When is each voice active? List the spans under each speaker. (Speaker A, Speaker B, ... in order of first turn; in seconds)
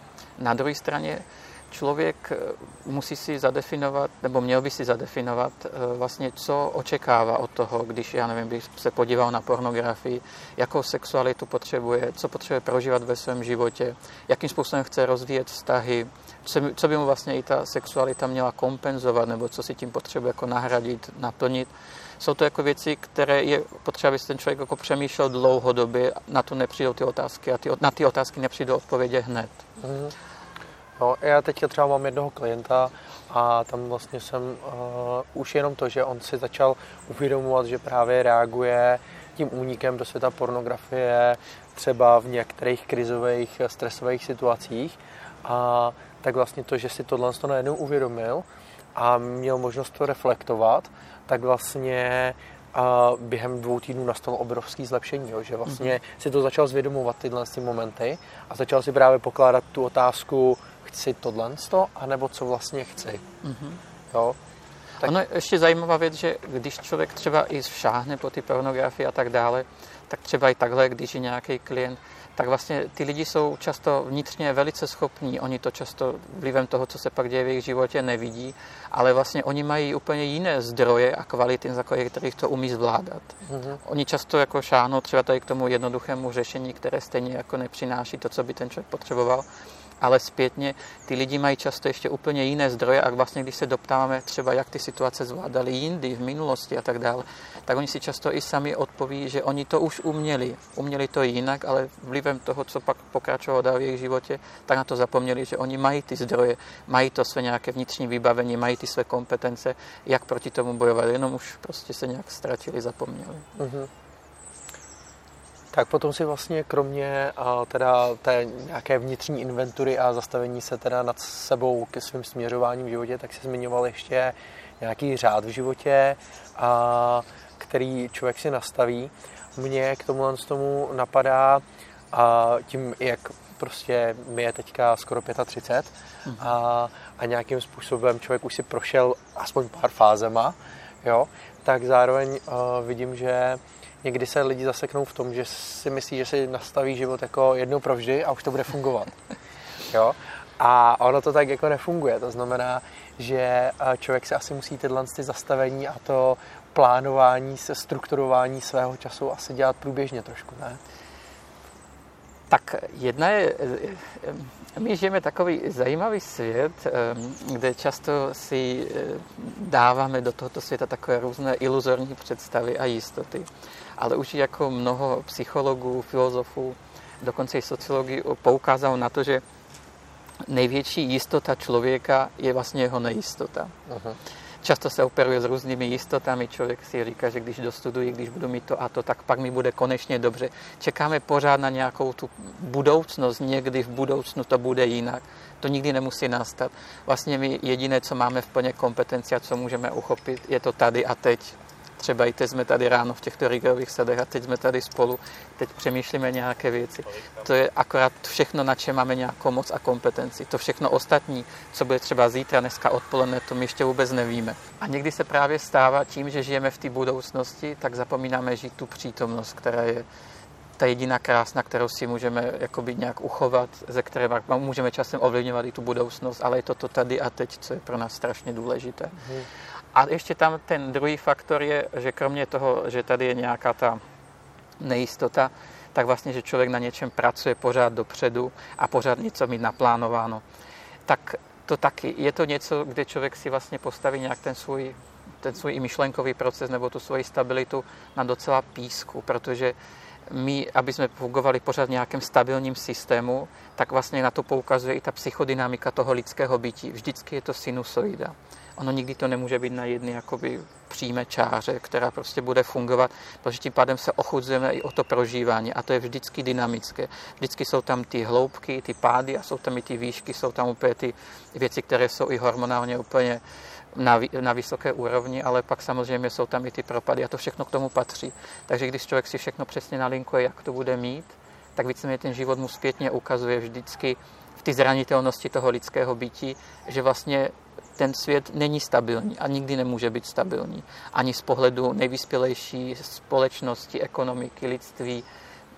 Speaker A: 0.4-29.6, 63.4-63.8, 65.0-89.5, 90.0-113.5, 136.2-136.5, 162.5-179.4, 180.4-183.7, 184.6-220.0, 220.8-229.2, 229.9-234.0, 234.8-240.4, 241.1-249.8, 250.3-273.4, 273.9-295.2
Speaker B: 29.8-30.1, 31.0-63.2, 64.1-64.3, 83.5-83.8, 113.6-113.9, 115.7-149.1, 149.9-160.8, 183.9-184.2